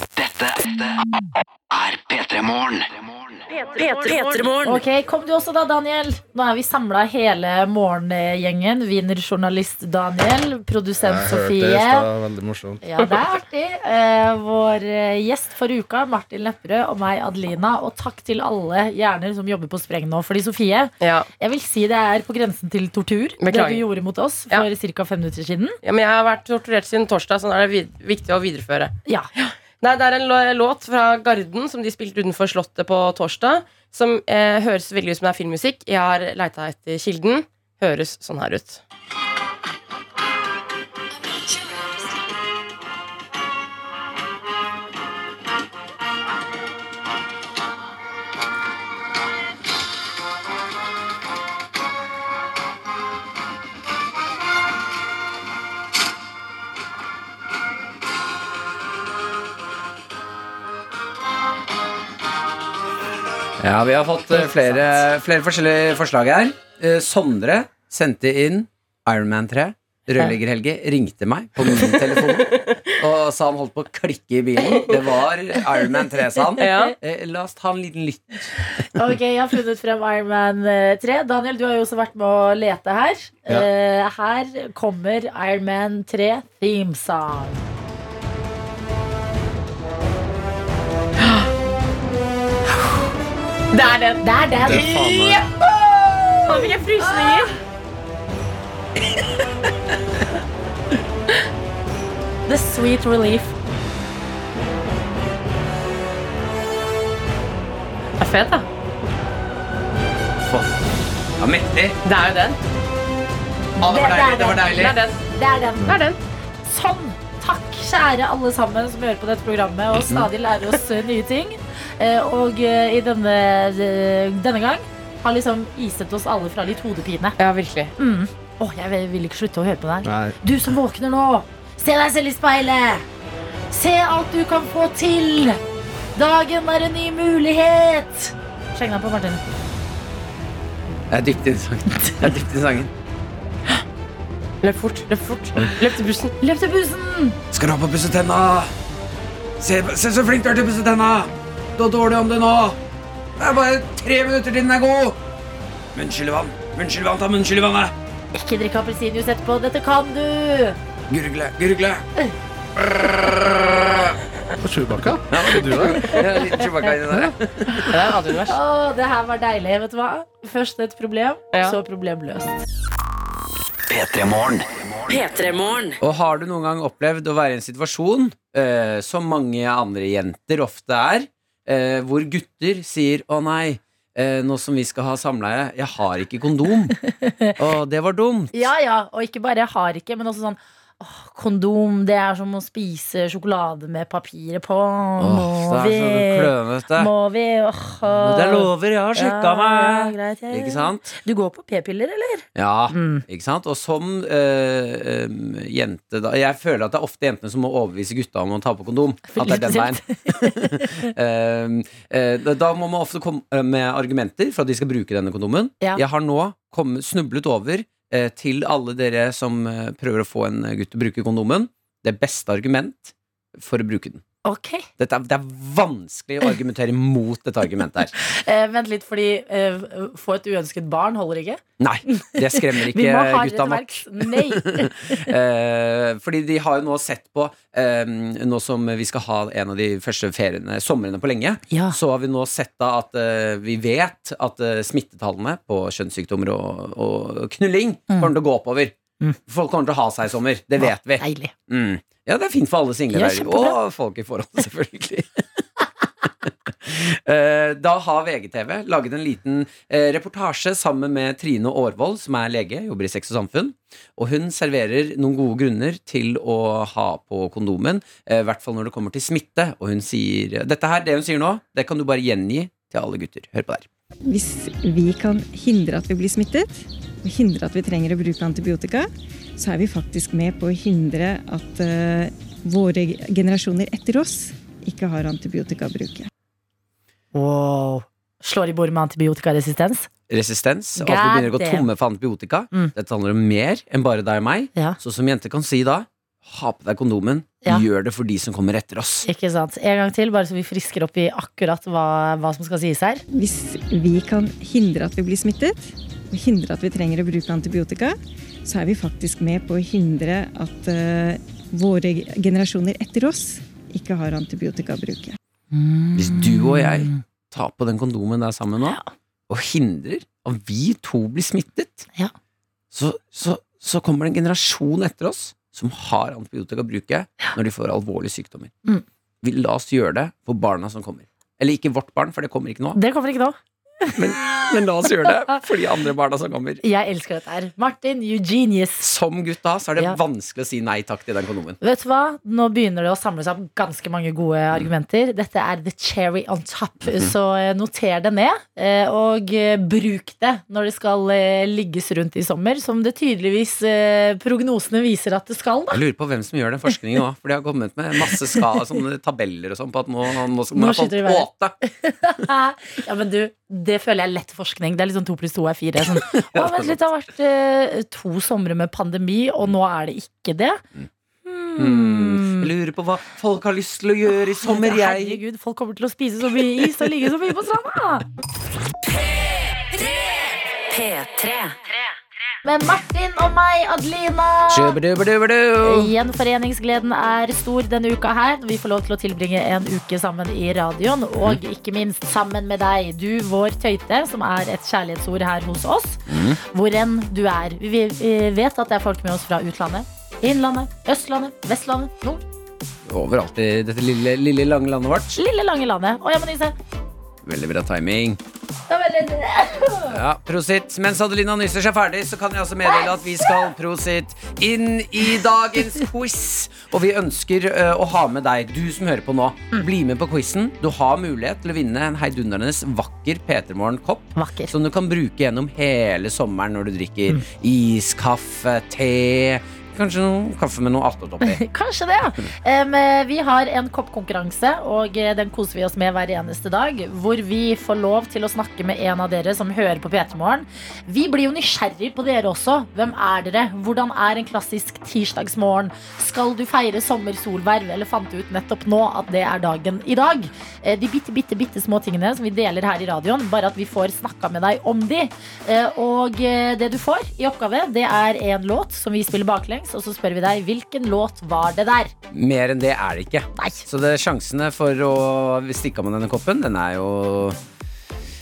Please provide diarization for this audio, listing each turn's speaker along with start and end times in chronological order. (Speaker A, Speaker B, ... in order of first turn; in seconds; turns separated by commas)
Speaker A: 0.2-1.1, Speaker A: 1.7-4.6, Speaker B: 3.7-4.8, Speaker C: 4.6-12.1, Speaker D: 11.0-12.8, Speaker C: 12.8-25.8, Speaker E: 21.0-21.3, Speaker E: 23.4-23.8, Speaker E: 25.8-38.8, Speaker F: 63.6-78.6, Speaker E: 71.8-73.0, Speaker E: 74.7-75.1, Speaker E: 76.6-77.0, Speaker C: 78.9-87.7, Speaker E: 91.2-91.5, Speaker E: 93.7-94.2, Speaker C: 94.2-95.4, Speaker D: 94.7-95.3, Speaker C: 96.0-97.5, Speaker E: 96.4-97.5, Speaker C: 102.5-103.5, Speaker E: 108.2-108.7, Speaker F: 111.4-112.0, Speaker E: 112.0-112.6, Speaker C: 113.8-114.8, Speaker F: 113.8-115.0, Speaker E: 114.7-115.2, Speaker C: 115.3-116.0, Speaker E: 115.8-116.2, Speaker C: 116.7-127.4, Speaker F: 120.0-120.3, Speaker E: 127.4-127.9, Speaker C: 128.0-133.1, Speaker D: 130.1-130.4, Speaker C: 133.7-135.6, Speaker C: 136.2-139.4, Speaker F: 141.1-142.9, Speaker E: 144.6-146.3, Speaker C: 146.4-147.4, Speaker F: 147.5-148.7, Speaker F: 149.6-152.8, Speaker F: 153.4-155.2, Speaker F: 155.9-157.9, Speaker C: 158.3-160.8, Speaker F: 161.1-162.1, Speaker F: 162.8-164.2, Speaker D: 164.6-166.2, Speaker F: 165.3-168.1, Speaker E: 167.9-168.6, Speaker C: 168.5-172.6, Speaker A: 173.9-175.9, Speaker B: 175.1-175.8, Speaker F: 176.0-187.0, Speaker C: 187.1-187.6, Speaker F: 187.6-188.7, Speaker C: 188.5-203.2, Speaker F: 195.2-197.1, Speaker F: 198.1-201.1, Speaker F: 202.6-224.2, Speaker C: 209.3-211.1, Speaker C: 224.4-224.9, Speaker F: 225.0-228.1, Speaker C: 228.2-231.6, Speaker F: 231.8-248.9, Speaker C: 232.1-235.3, Speaker C: 241.7-242.0, Speaker F: 249.5-255.6, Speaker C: 250.8-251.5, Speaker C: 253.1-253.8, Speaker F: 256.4-273.9, Speaker G: 274.3-286.3, Speaker C: 287.3-290.1, Speaker F: 290.3-299.3, Speaker C: 291.0-291.9, Speaker C: 299.2-303.2, Speaker G: 303.3-315.4, Speaker C: 315.7-317.2, Speaker F: 316.1-319.0, Speaker F: 319.5-322.1, Speaker F: 322.9-328.7, Speaker F: 329.4-333.0, Speaker C: 332.9-334.2, Speaker F: 334.1-336.8, Speaker C: 336.8-339.1, Speaker F: 339.0-341.8, Speaker C: 341.8-356.0, Speaker F: 355.9-361.8, Speaker C: 360.7-370.8, Speaker F: 366.1-367.0, Speaker C: 371.4-372.7, Speaker F: 371.8-375.4, Speaker C: 374.6-378.3, Speaker B: 380.9-381.8, Speaker C: 382.6-385.0, Speaker F: 384.7-386.1, Speaker C: 385.8-402.4, Speaker F: 396.3-396.6, Speaker F: 403.1-405.4, Speaker C: 405.4-406.8, Speaker F: 407.4-408.4, Speaker C: 408.9-410.2, Speaker F: 410.1-431.6, Speaker C: 413.0-413.6, Speaker C: 424.4-424.7, Speaker C: 431.4-462.1, Speaker F: 462.3-467.6, Speaker C: 463.6-463.8